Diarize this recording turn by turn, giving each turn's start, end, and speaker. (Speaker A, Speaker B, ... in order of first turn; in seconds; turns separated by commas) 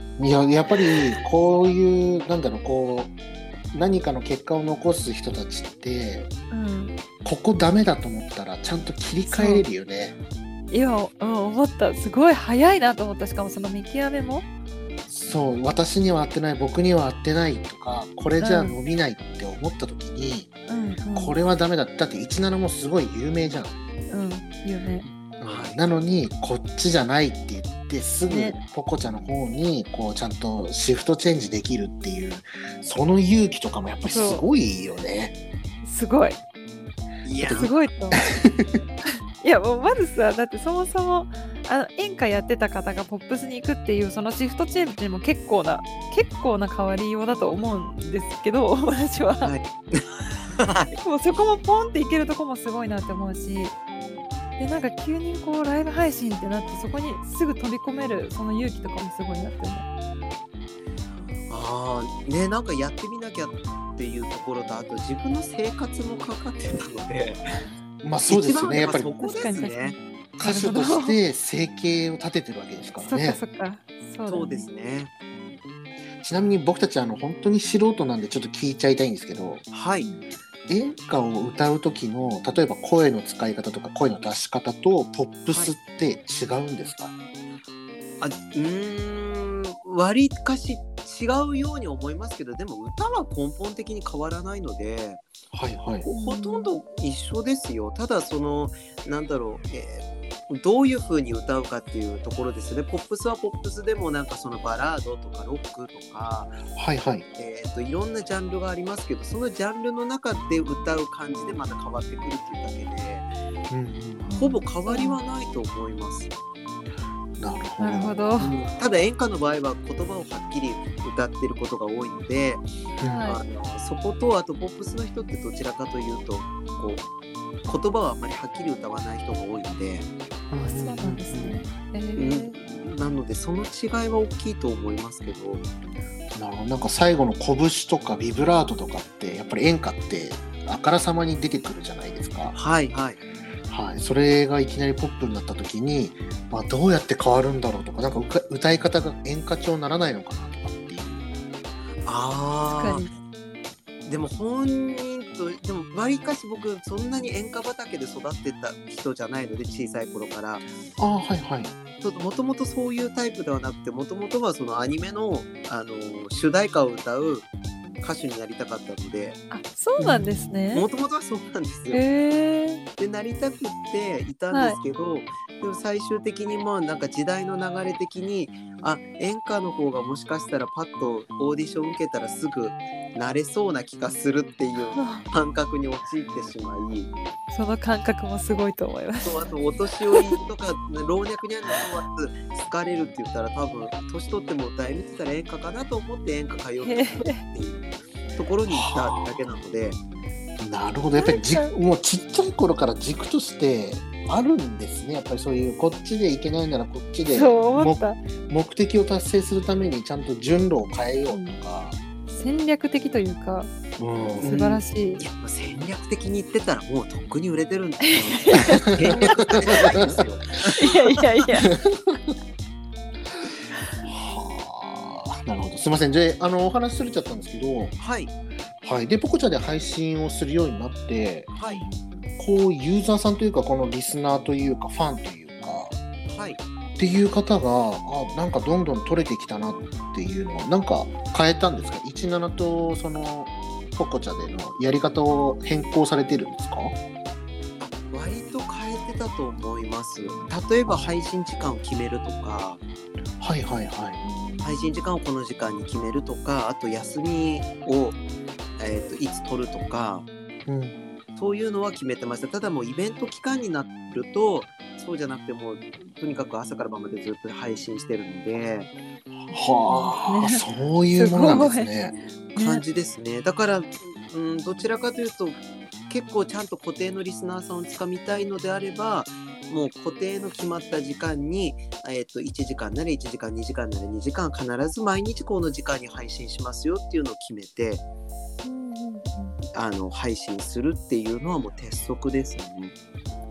Speaker A: 0.2-3.1, Speaker A: 3.7-6.3, Speaker B: 6.5-7.0, Speaker A: 7.2-10.2, Speaker B: 9.3-9.7, Speaker B: 10.7-14.5, Speaker A: 15.1-20.5, Speaker B: 18.4-18.8, Speaker B: 20.7-21.4, Speaker A: 21.1-23.7, Speaker B: 24.1-25.1, Speaker A: 25.4-35.3, Speaker C: 25.5-25.9, Speaker B: 28.3-28.6, Speaker B: 34.1-34.4, Speaker B: 35.8-36.4, Speaker C: 37.2-37.8, Speaker A: 37.4-38.8, Speaker B: 37.6-38.2, Speaker B: 39.4-49.5, Speaker C: 49.4-51.0, Speaker B: 51.0-53.8, Speaker B: 54.6-59.9, Speaker C: 61.5-67.7, Speaker A: 68.0-69.1, Speaker C: 68.3-70.0, Speaker B: 69.2-71.2, Speaker A: 70.4-73.4, Speaker B: 73.0-74.7, Speaker C: 74.3-75.1, Speaker A: 76.2-79.7, Speaker C: 79.7-80.1, Speaker A: 80.7-87.1, Speaker C: 85.5-85.8, Speaker C: 88.2-95.3, Speaker A: 95.5-96.1, Speaker C: 96.0-106.6, Speaker B: 96.1-96.7, Speaker A: 106.7-107.3, Speaker C: 107.4-113.3, Speaker A: 113.7-114.2, Speaker B: 114.2-115.2, Speaker C: 114.4-116.3, Speaker A: 117.4-118.3, Speaker B: 117.8-118.7, Speaker C: 118.4-122.7, Speaker A: 123.0-123.3, Speaker B: 123.0-123.4, Speaker C: 123.3-127.1, Speaker C: 127.7-130.1, Speaker A: 130.5-131.6, Speaker B: 130.6-132.6, Speaker C: 132.2-135.6, Speaker A: 136.3-142.6, Speaker C: 142.5-143.2, Speaker A: 143.7-151.3, Speaker C: 152.1-153.1, Speaker B: 152.8-153.1, Speaker C: 154.1-160.7, Speaker A: 161.0-161.8, Speaker C: 162.0-167.5, Speaker C: 168.0-169.4, Speaker B: 169.5-170.9, Speaker A: 170.0-170.5, Speaker C: 170.7-172.0, Speaker B: 171.9-172.8, Speaker C: 173.0-187.1, Speaker B: 174.5-174.8, Speaker B: 185.0-185.2, Speaker B: 187.5-189.5, Speaker C: 189.2-200.0, Speaker B: 196.8-197.4, Speaker A: 198.7-199.4, Speaker A: 200.6-212.0, Speaker B: 201.2-201.7, Speaker B: 207.3-208.2, Speaker B: 211.3-211.6, Speaker B: 212.3-213.7, Speaker A: 214.0-214.5, Speaker C: 214.4-221.2, Speaker B: 214.4-215.2, Speaker B: 218.1-219.9, Speaker A: 219.7-220.2, Speaker B: 220.8-221.7, Speaker A: 221.8-222.2, Speaker A: 224.1-228.0, Speaker C: 228.0-228.3, Speaker A: 228.8-236.0, Speaker C: 231.5-231.9, Speaker C: 236.3-236.6, Speaker A: 237.0-246.9, Speaker C: 247.8-252.8, Speaker A: 250.9-251.2, Speaker A: 253.4-254.2, Speaker B: 254.2-255.0, Speaker C: 254.6-258.2, Speaker C: 258.8-260.3, Speaker A: 260.7-261.0, Speaker C: 261.4-268.9, Speaker A: 269.4-272.1, Speaker B: 269.9-271.9, Speaker B: 272.6-272.8, Speaker C: 272.6-288.0, Speaker B: 288.6-289.6, Speaker C: 289.7-292.9